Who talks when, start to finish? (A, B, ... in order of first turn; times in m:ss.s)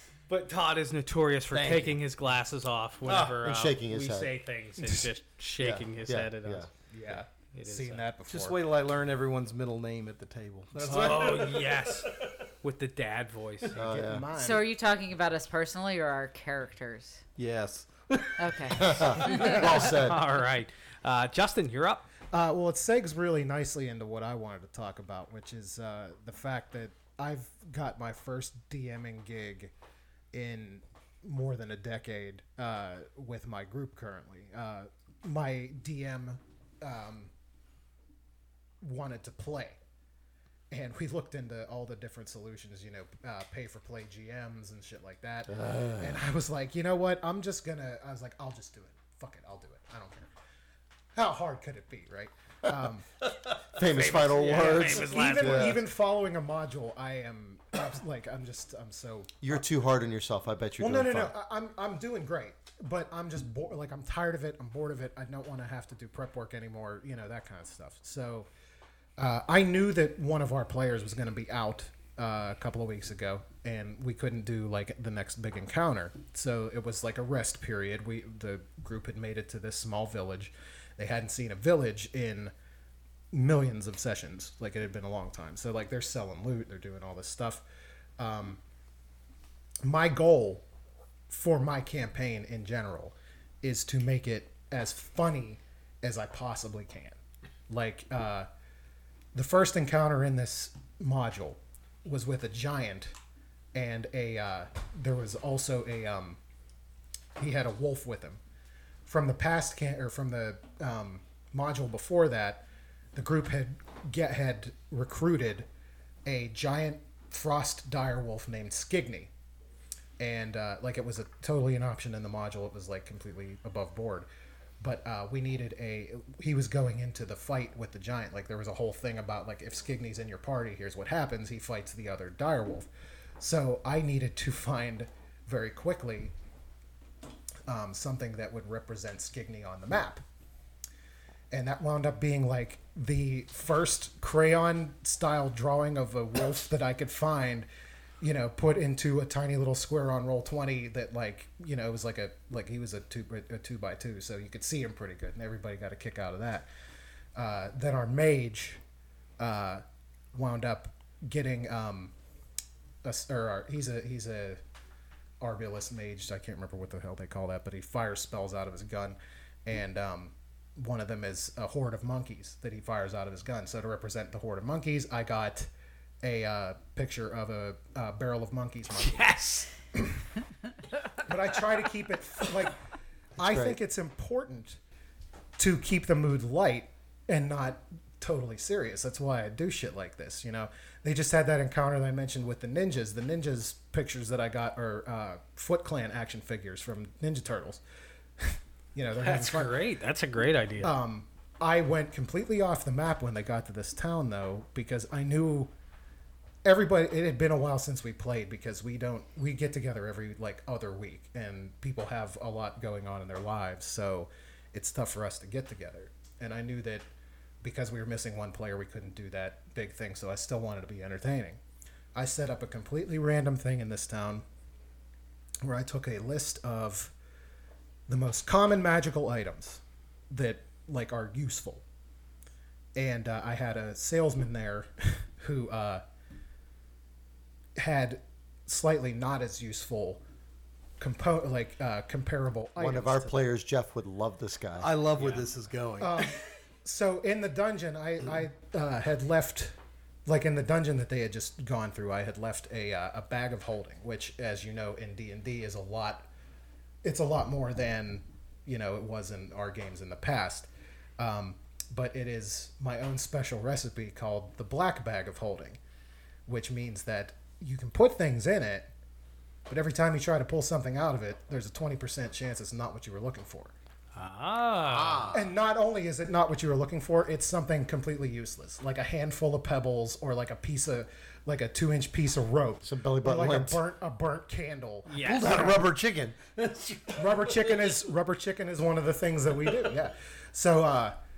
0:00.3-0:06.7 A
0:01.5-0:02.0 B
0:03.0-0:03.3 B
0:03.4-0:04.3 C
0:05.6-0:06.7 C
0:06.9-0:08.6 D
0:07.5-0:08.0 A
0:08.3-0:12.4 B
0:10.8-0:13.8 A
0:13.7-0:14.3 C
0:13.7-0:14.6 D
0:14.3-0:17.2 E
0:17.4-0:18.9 B
0:18.4-0:19.7 E
0:18.7-0:20.2 C
0:19.2-0:22.1 A
0:19.3-0:19.6 D
0:22.3-0:29.7 D
0:30.3-0:37.3 D
0:38.8-0:39.8 D
0:40.7-0:50.3 D
0:45.5-0:46.2 C
0:51.1-0:53.1 D
0:53.7-0:55.8 C
0:53.8-0:55.8 A
0:54.1-0:59.6 D
0:59.4-1:01.3 C
1:00.8-1:08.5 D
1:09.2-1:22.5 D
1:23.3-1:27.6 D
1:28.2-1:28.6 D
1:29.8-1:30.6 D
1:31.3-1:37.2 D
1:37.7-1:38.5 D
1:39.3-1:43.1 D
1:43.7-1:46.4 D
1:47.4-1:48.4 D
1:49.0-1:55.7 D
1:56.2-1:59.3 D
2:00.2-2:04.3 D
2:04.8-2:16.3 D
2:17.7-2:20.2 D
2:21.5-2:27.7 D
2:28.2-2:36.7 D
2:37.3-2:38.8 D
2:39.4-2:39.8 D
2:40.3-2:42.1 D
2:43.0-2:44.6 D
2:45.4-2:55.7 D
2:56.2-2:59.3 D
2:58.9-2:59.7 A
2:59.9-3:00.3 D
3:01.2-3:02.8 D
3:03.4-3:04.8 D
3:03.5-3:03.8 C
3:05.6-3:17.8 D
3:18.4-3:19.8 D
3:19.2-3:20.9 A
3:20.8-3:25.7 D
3:26.6-3:37.1 D
3:37.6-3:41.6 D
3:42.1-3:44.4 D
3:45.6-3:47.1 D
3:48.1-3:51.8 D
3:53.0-3:56.0 D
3:57.8-4:00.2 D
4:01.0-4:03.4 D
4:02.8-4:04.9 C
4:04.8-4:06.3 B
4:05.2-4:05.5 A
4:06.0-4:16.3 D
4:17.0-4:25.8 D
4:26.5-4:28.9 D
4:29.7-4:33.7 D
4:34.2-4:35.4 A
4:34.9-4:35.4 B
4:35.3-4:45.8 D
4:42.8-4:43.8 C
4:45.1-4:45.7 A
4:45.2-4:48.0 B
4:47.2-4:51.2 D